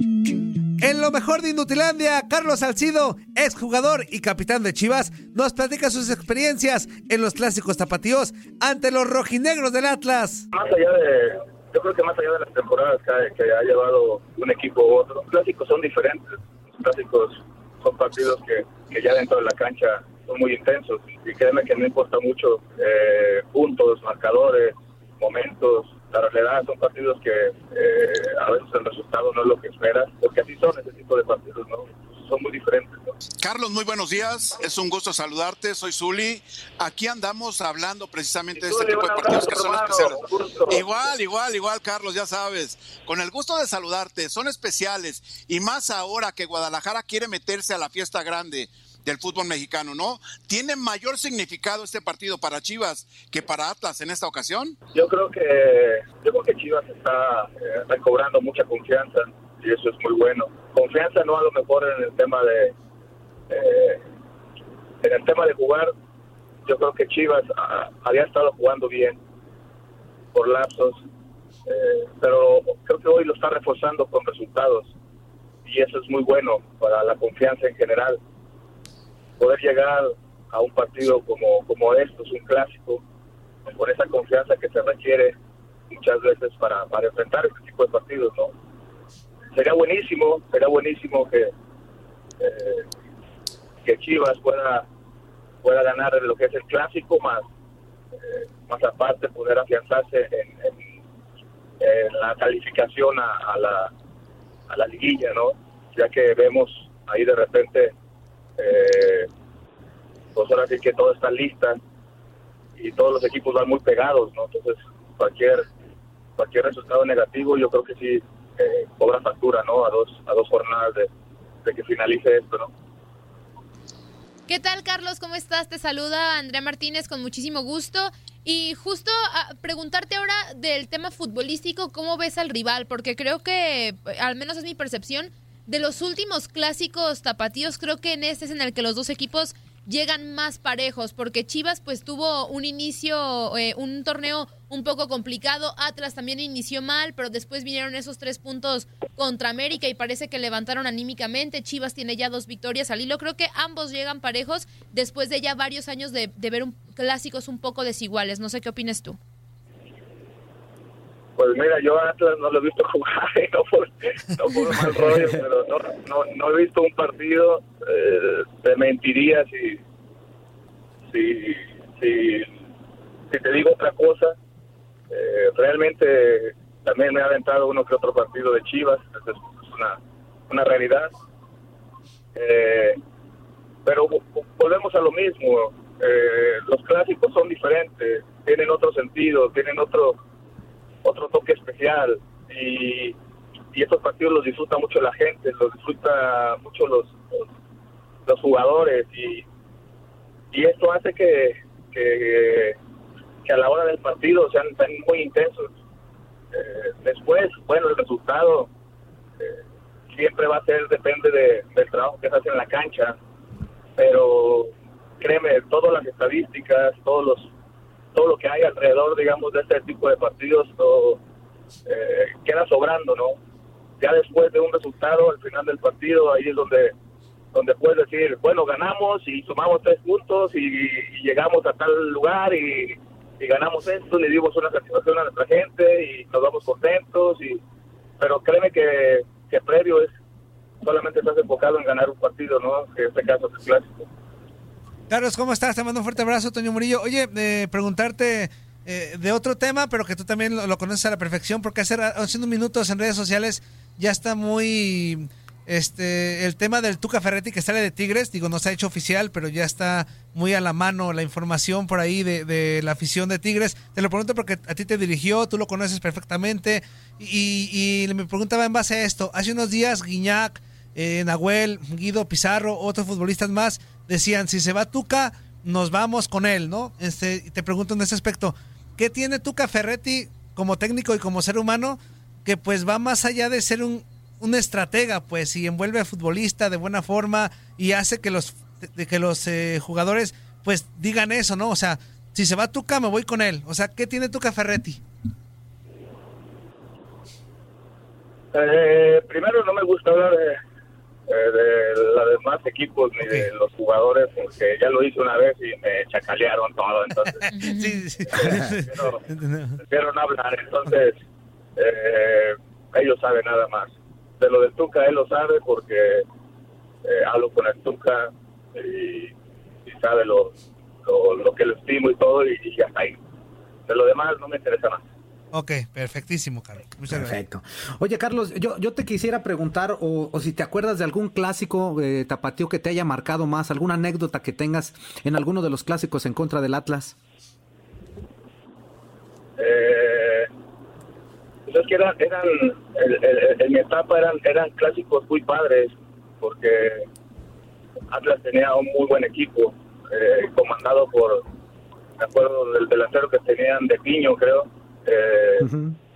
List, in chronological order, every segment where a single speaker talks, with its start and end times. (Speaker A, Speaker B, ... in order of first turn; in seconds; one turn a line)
Speaker A: 0.8-10.5
Speaker B: 10.5-33.1
Speaker C: 33.4-54.8
Speaker B: 38.6-40.9
Speaker B: 55.0-62.7
Speaker B: 63.5-64.0
Speaker B: 65.0-65.9
Speaker B: 66.7-69.2
Speaker B: 70.3-71.0
Speaker B: 71.7-74.9
Speaker B: 75.7-78.2
Speaker B: 79.4-83.0
Speaker B: 83.7-85.4
Speaker B: 85.9-88.5
Speaker B: 89.5-91.5
Speaker B: 92.4-92.9
Speaker B: 93.8-94.9
Speaker B: 95.6-97.5
Speaker B: 98.2-100.8
Speaker B: 101.8-103.9
Speaker B: 104.7-107.9
Speaker B: 108.6-109.3
Speaker B: 110.3-111.8
Speaker B: 112.8-115.7
Speaker B: 116.4-121.1
Speaker B: 121.6-122.7
Speaker D: 124.5-159.2
Speaker B: 161.4-169.8
Speaker B: 171.1-172.5
Speaker B: 173.3-174.3
Speaker B: 175.1-180.0
Speaker B: 180.5-181.1
Speaker B: 182.3-183.0
Speaker B: 183.8-190.2
Speaker B: 191.0-193.2
Speaker B: 193.7-197.4
Speaker B: 198.3-199.4
Speaker B: 200.5-202.8
Speaker B: 203.4-205.7
Speaker B: 206.5-208.7
Speaker B: 210.1-213.2
Speaker B: 214.0-217.5
Speaker B: 218.2-221.2
Speaker B: 221.9-223.4
Speaker B: 224.0-226.9
Speaker B: 227.5-237.6
Speaker B: 238.2-240.1
Speaker B: 240.8-244.1
Speaker A: 245.1-295.0
Speaker B: 298.5-300.6
Speaker B: 301.3-307.5
Speaker A: 307.4-309.8
Speaker D: 307.5-308.1
Speaker B: 308.3-309.2
Speaker B: 309.8-311.2
Speaker B: 311.8-316.2
Speaker B: 317.1-319.3
Speaker B: 319.9-323.2
Speaker B: 323.9-325.0
Speaker A: 325.5-327.4
Speaker E: 327.1-337.1
Speaker B: 339.6-340.5
Speaker B: 341.7-347.1
Speaker B: 348.1-351.4
Speaker B: 352.2-355.7
Speaker E: 355.6-356.0